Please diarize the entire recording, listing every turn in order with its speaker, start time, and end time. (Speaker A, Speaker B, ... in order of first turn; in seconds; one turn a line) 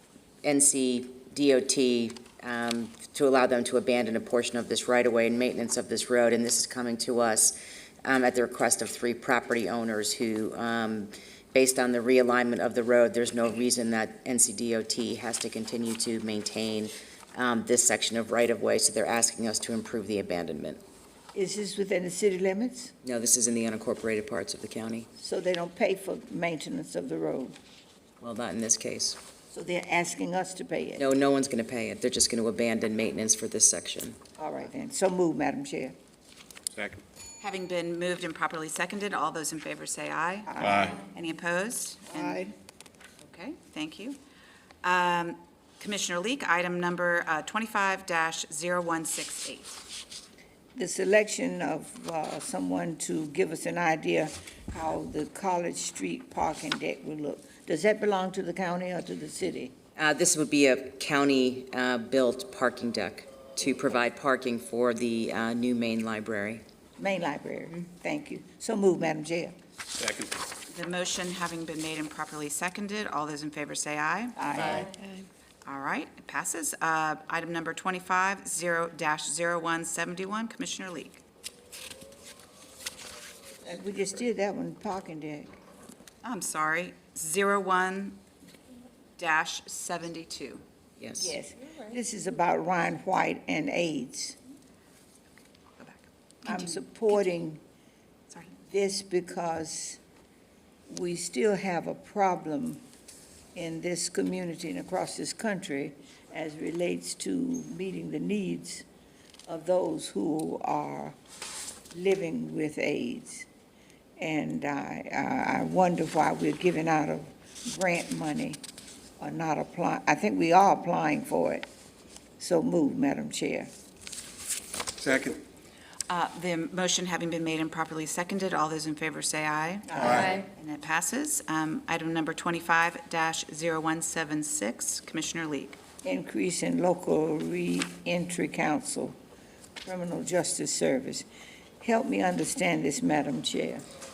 Speaker A: 0.4-20.8
Speaker B: 21.3-22.9
Speaker A: 23.0-25.1
Speaker B: 25.2-27.6
Speaker A: 28.2-29.2
Speaker B: 29.5-31.0
Speaker A: 31.0-34.2
Speaker B: 34.4-35.9
Speaker C: 36.7-37.0
Speaker D: 37.4-42.5
Speaker B: 40.5-40.9
Speaker C: 40.6-41.0
Speaker B: 42.1-42.5
Speaker D: 43.2-44.2
Speaker D: 44.8-49.8
Speaker B: 50.7-59.7
Speaker A: 60.0-66.6
Speaker B: 67.0-69.6
Speaker C: 69.9-70.3
Speaker D: 70.7-74.8
Speaker B: 74.4-74.9
Speaker D: 75.6-81.2
Speaker B: 83.6-85.5
Speaker D: 86.2-88.2
Speaker D: 89.2-90.6
Speaker A: 91.0-91.3
Speaker B: 91.2-94.4
Speaker D: 95.8-96.7
Speaker B: 96.4-97.6
Speaker D: 98.3-98.5
Speaker B: 98.7-100.0
Speaker B: 100.9-102.8
Speaker B: 103.5-108.8
Speaker B: 109.5-111.2
Speaker B: 111.9-113.5
Speaker B: 114.2-118.6
Speaker B: 119.2-121.7
Speaker B: 122.4-123.7
Speaker C: 125.0-125.4
Speaker D: 126.1-135.8
Speaker B: 129.9-130.4
Speaker C: 130.0-130.3
Speaker B: 136.0-139.2
Speaker B: 139.8-141.2
Speaker B: 141.8-143.8